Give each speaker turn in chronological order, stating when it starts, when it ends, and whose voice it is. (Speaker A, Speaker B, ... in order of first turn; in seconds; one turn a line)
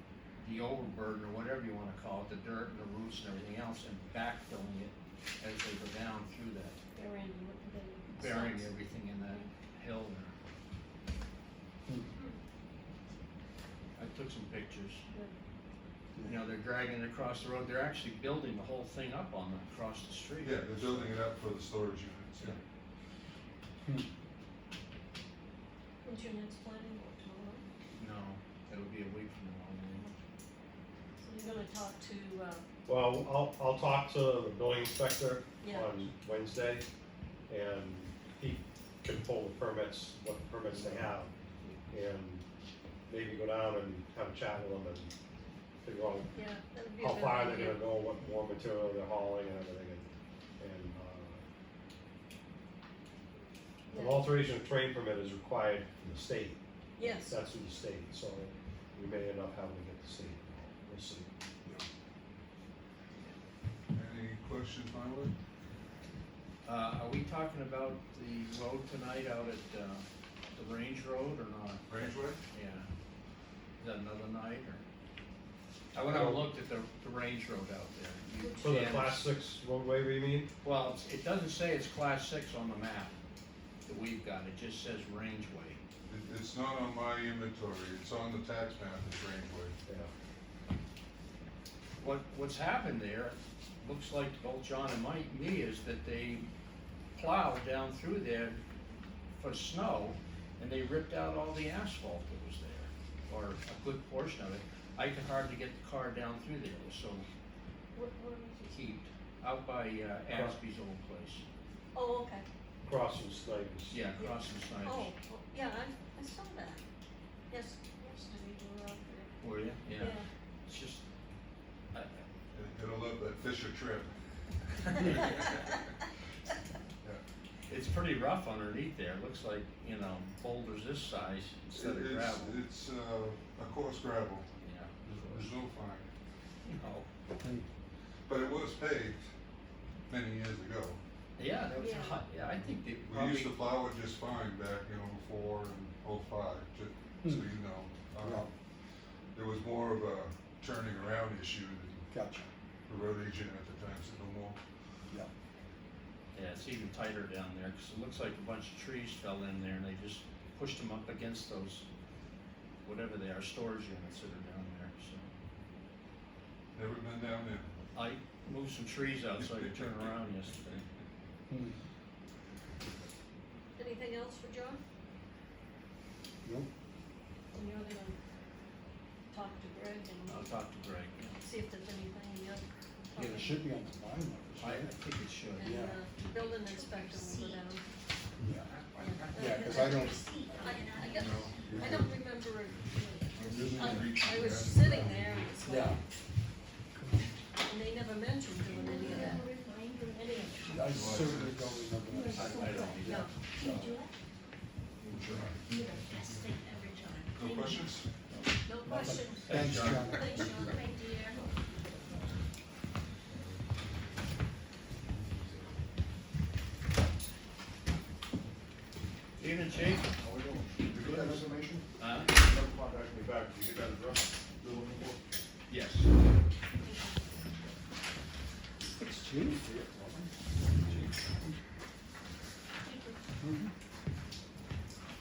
Speaker A: 0.4-6.8
Speaker B: 6.9-8.7
Speaker A: 8.1-10.3
Speaker A: 14.0-15.0
Speaker B: 15.1-15.3
Speaker A: 16.2-21.2
Speaker C: 20.4-22.6
Speaker B: 26.0-27.6
Speaker A: 27.9-30.1
Speaker B: 31.2-32.6
Speaker D: 32.9-36.9
Speaker B: 35.6-35.9
Speaker D: 37.5-41.3
Speaker D: 41.9-42.4
Speaker D: 43.1-45.1
Speaker D: 45.8-46.3
Speaker B: 46.3-47.8
Speaker D: 47.0-50.0
Speaker D: 50.6-51.4
Speaker B: 53.9-54.3
Speaker D: 53.9-56.6
Speaker B: 57.0-57.4
Speaker D: 57.1-61.3
Speaker C: 63.9-65.3
Speaker A: 66.6-72.9
Speaker C: 71.9-72.4
Speaker A: 73.8-74.8
Speaker A: 75.9-79.2
Speaker D: 76.1-76.5
Speaker B: 78.4-78.8
Speaker D: 78.6-80.5
Speaker A: 80.6-83.1
Speaker A: 83.8-85.8
Speaker C: 86.0-89.7
Speaker A: 92.0-96.5
Speaker A: 97.1-98.6
Speaker A: 99.3-107.3
Speaker B: 107.9-108.8
Speaker A: 108.7-111.4
Speaker D: 110.3-110.6
Speaker B: 111.9-112.5
Speaker D: 112.8-114.0
Speaker A: 113.9-115.1
Speaker B: 114.2-116.8
Speaker B: 117.5-119.3
Speaker A: 119.4-121.0
Speaker B: 120.0-120.3
Speaker C: 122.5-124.1
Speaker C: 124.6-125.9
Speaker A: 127.7-132.6
Speaker C: 131.7-134.5
Speaker A: 134.6-134.9
Speaker C: 135.0-136.1
Speaker A: 136.7-137.1
Speaker C: 138.3-139.2
Speaker C: 140.1-141.0
Speaker A: 141.4-143.5
Speaker B: 141.8-142.2
Speaker C: 143.0-148.5
Speaker C: 149.3-152.1
Speaker E: 152.1-152.4
Speaker C: 152.9-154.6
Speaker A: 156.3-161.8
Speaker A: 162.8-165.3
Speaker C: 166.7-167.7
Speaker A: 167.9-170.8
Speaker C: 169.4-170.2
Speaker B: 173.8-174.8
Speaker B: 177.5-178.2
Speaker B: 179.3-180.5
Speaker A: 180.3-181.4
Speaker B: 181.4-183.6
Speaker E: 183.2-184.9
Speaker A: 184.6-185.8
Speaker B: 185.6-187.8
Speaker E: 185.6-185.9
Speaker A: 188.6-189.6
Speaker B: 189.0-196.0
Speaker E: 189.3-191.0
Speaker C: 191.0-192.7
Speaker C: 193.3-195.5
Speaker E: 193.4-194.3
Speaker E: 195.7-196.0
Speaker B: 197.6-200.9
Speaker C: 198.7-199.1
Speaker E: 199.0-199.3
Speaker E: 200.7-203.8
Speaker C: 200.9-201.6
Speaker D: 201.0-201.3
Speaker B: 202.1-204.1
Speaker A: 202.3-203.3
Speaker A: 205.1-205.4
Speaker C: 205.1-205.6
Speaker B: 205.7-207.9
Speaker C: 206.1-206.4
Speaker C: 207.3-208.1
Speaker B: 208.7-211.5
Speaker E: 208.8-210.8
Speaker A: 209.5-210.0
Speaker C: 209.6-210.2
Speaker F: 213.3-213.6
Speaker F: 215.1-215.8
Speaker A: 219.4-220.1
Speaker F: 220.2-225.2
Speaker A: 220.9-221.4
Speaker A: 222.0-222.3
Speaker A: 225.7-226.1
Speaker B: 226.7-227.2
Speaker D: 229.0-229.6
Speaker F: 229.7-230.2
Speaker B: 232.8-233.2